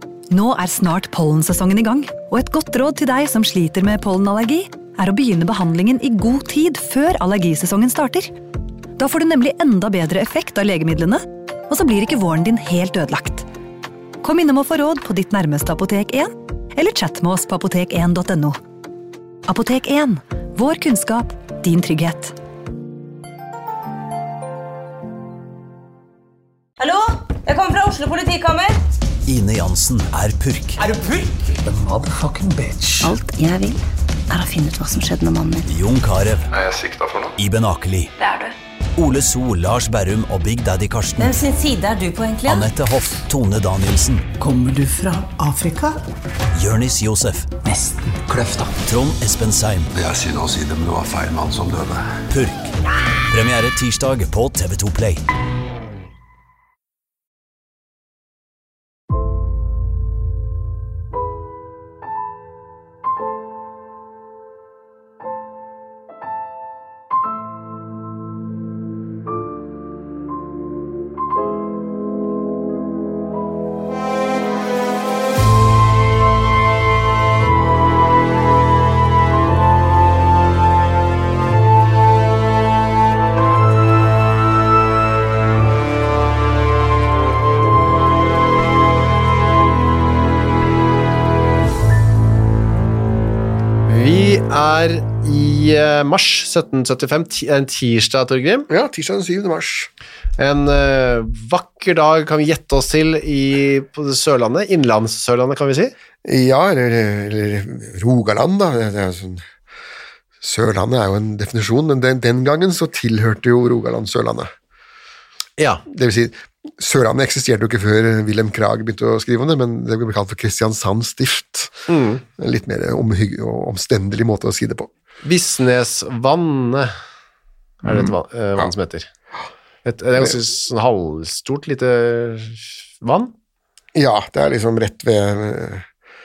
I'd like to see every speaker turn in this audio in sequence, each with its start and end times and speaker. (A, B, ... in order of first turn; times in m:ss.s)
0:00.3-0:08.3 A
0:09.0-0:13.5 A
0:14.2-0:18.6 A
0:19.5-0:22.4 A
0:26.8-0:28.8 B
0:29.2-0:30.8 C
0:30.9-0:33.1 D
0:33.0-0:35.7 E
0:35.7-0:36.5 C
0:36.5-0:37.3 F
0:37.4-0:38.1 C
0:39.0-0:41.4 C
0:41.2-0:42.7 B
0:42.5-0:44.3 C
0:44.4-0:46.0 D
0:46.6-0:47.6 C
0:47.6-0:48.8 D
0:48.8-0:49.9 C
0:50.0-0:52.2 F
0:52.3-0:52.7 C
0:53.3-0:55.2 C
1:33.9-1:38.7 G
1:38.7-1:39.9 H
1:40.4-1:45.9 G
1:46.2-1:49.5 H
1:50.4-1:54.5 H
1:55.6-1:55.8 G
1:55.9-2:01.9 H
2:01.9-2:02.2 G
2:02.4-2:04.9 H
2:05.2-2:06.9 G
2:07.8-2:08.7 H
2:07.8-2:09.1 G
2:09.9-2:13.3 G
2:14.0-2:15.9 H